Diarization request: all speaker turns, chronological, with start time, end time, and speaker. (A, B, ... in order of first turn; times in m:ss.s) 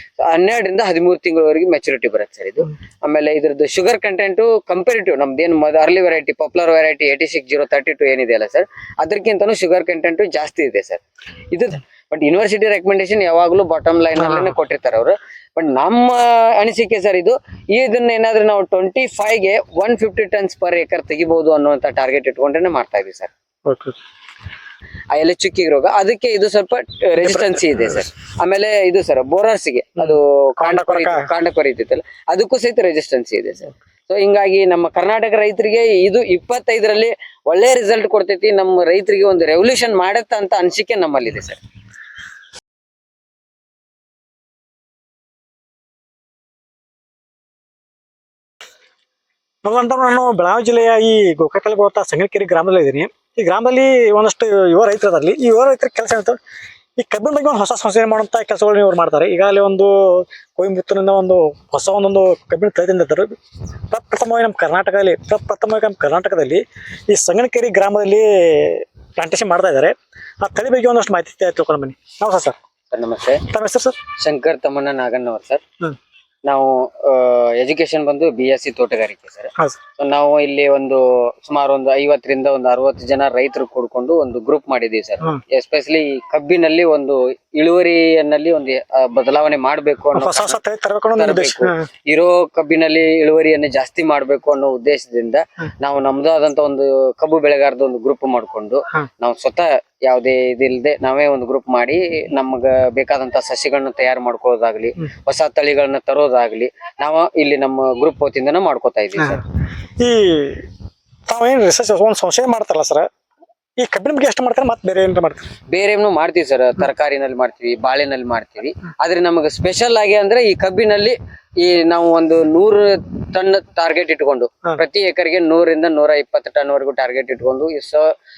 0:00.2-0:23.3 A
0:23.6-0:24.0 B
0:25.1-0:41.6 A
0:27.2-0:27.7 B
0:30.0-0:31.3 B
0:49.6-0:56.4 B
0:57.0-1:03.4 B
1:03.9-1:12.6 B
1:12.9-1:13.4 A
1:13.5-1:13.9 B
1:14.2-1:15.6 A
1:16.4-1:30.6 A
1:30.1-1:31.8 B
1:31.1-1:49.4 A
1:50.0-1:50.7 B
1:51.3-1:53.1 B
1:53.8-1:55.5 B
1:55.7-2:08.0 A